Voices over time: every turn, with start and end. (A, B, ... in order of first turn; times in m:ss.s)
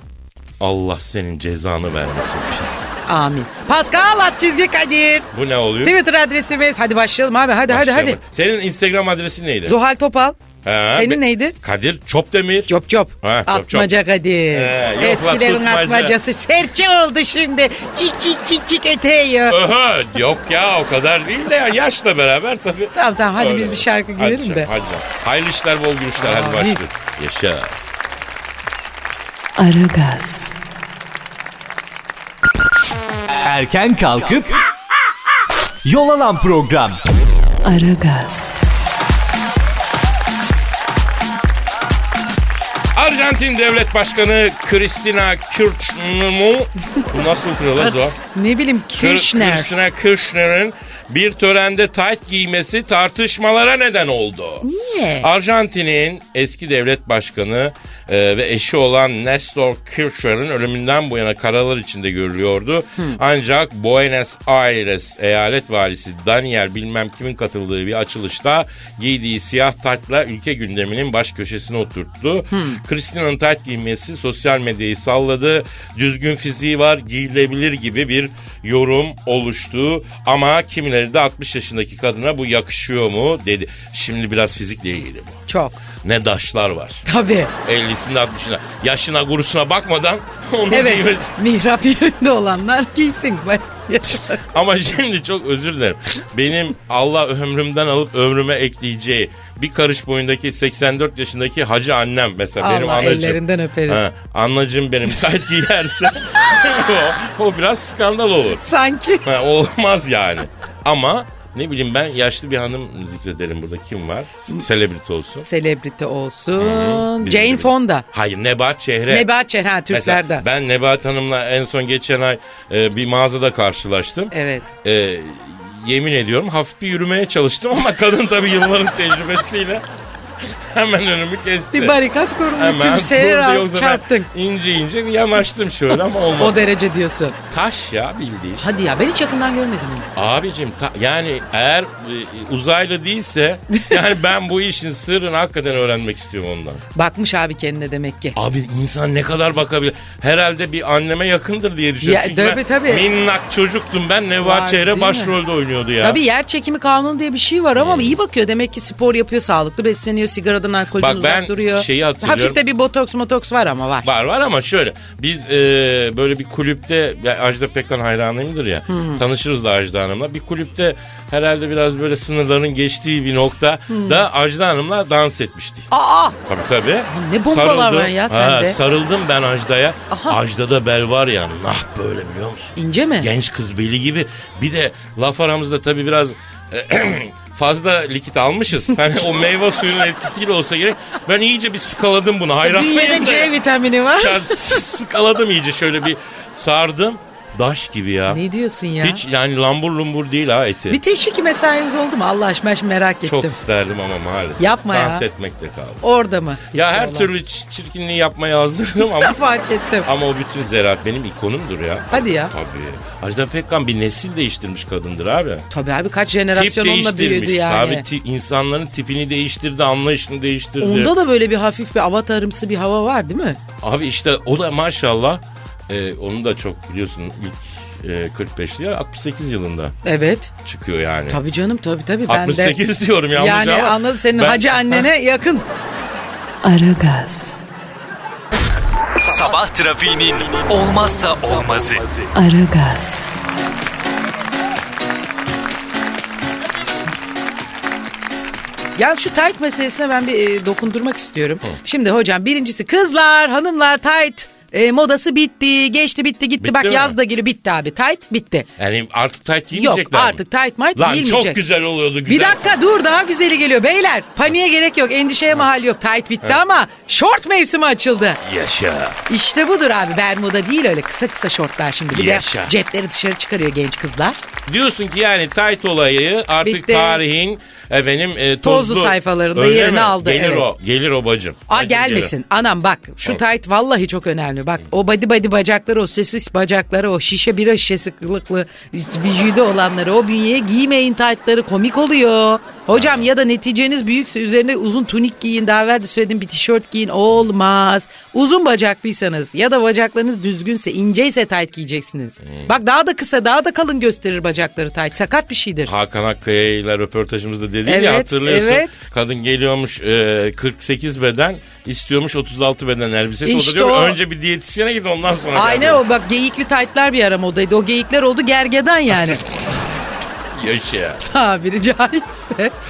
0:00.6-0:02.9 A
0:03.1-0:05.3 B
0:05.3-0:06.0 A
0:05.8-0:08.2 B
0:07.7-0:09.8 A
0:09.6-0:10.4 B
0:10.6-0:12.7 A
0:10.9-0:11.6 B
0:12.7-0:19.6 B
0:13.2-0:13.9 A
0:14.5-0:16.2 A
0:19.5-0:27.8 A
0:23.0-0:24.7 B
0:26.2-0:26.8 B
0:29.6-0:30.6 C
0:33.4-0:34.6 D
0:35.8-0:37.0 D
0:37.6-0:38.6 C
0:42.9-0:48.2 A
0:47.8-0:49.7 B
0:48.9-0:54.7 A
0:54.6-0:55.3 B
0:55.2-1:25.4 A
1:12.5-1:12.8 B
1:25.5-1:25.8 B
1:26.0-1:27.0 A
1:27.0-1:27.5 B
1:27.6-1:31.3 A
1:30.7-1:34.5 B
1:34.4-1:48.6 A
1:42.6-1:44.0 B
1:48.6-1:49.3 B
1:49.2-1:55.5 A
1:55.5-1:58.0 B
1:56.6-1:59.3 A
1:59.1-2:00.4 B
1:59.9-2:04.3 A
2:04.3-2:04.7 B
2:04.8-2:09.8 A
2:10.4-2:12.0 A
2:11.7-2:14.3 B
2:12.6-2:16.6 A
2:16.4-2:17.4 B
2:17.5-2:18.6 A
2:18.6-2:20.1 B
2:20.2-2:26.8 A
2:27.0-2:28.4 B
2:28.4-2:36.2 A
2:32.0-2:33.1 B
2:34.4-2:35.4 B
2:36.0-2:44.1 B
2:37.8-2:38.2 A
2:41.0-2:42.6 A
2:44.0-2:55.9 A
2:48.9-2:49.2 B
2:53.9-2:54.2 B
2:55.9-2:56.4 B
2:56.5-3:13.5 A
2:57.1-2:58.8 B
3:00.1-3:00.4 B
3:02.8-3:03.3 B
3:12.6-3:14.8 B
3:14.2-3:18.4 A
3:18.3-3:19.2 B
3:19.0-3:21.0 A
3:20.9-3:23.6 B
3:23.2-3:26.0 A
3:24.6-3:25.2 B
3:26.0-3:27.3 B
3:26.7-3:29.4 A
3:29.0-3:30.1 B
3:30.0-3:35.7 A
3:32.1-3:32.5 B
3:35.7-3:38.0 B
3:36.5-3:41.1 A
3:40.8-3:43.6 B
3:43.8-3:50.0 A
3:50.0-3:50.5 B
3:50.6-3:51.4 A
3:51.3-3:52.8 B
3:52.3-3:55.1 A
3:53.3-3:55.6 B
3:56.6-3:57.6 C
3:59.2-4:02.3 D
4:02.4-4:03.4 C
4:09.0-4:18.7 B
4:16.6-4:17.2 A
4:18.8-4:20.4 A
4:19.7-4:21.6 B
4:21.0-4:22.8 A
4:22.3-4:28.4 B
4:28.4-4:29.2 A
4:29.3-4:34.4 B
4:32.1-4:32.7 A
4:34.7-4:42.3 A
4:36.6-4:37.2 B
4:38.6-4:40.7 B
4:41.7-5:05.9 B
4:52.9-4:53.3 A
5:02.4-5:02.7 A
5:05.9-5:16.0 A
5:07.8-5:09.0 B
5:13.4-5:14.2 B
5:15.5-5:19.4 B
5:19.1-5:19.4 A
5:20.5-5:21.2 A
5:21.2-5:22.8 B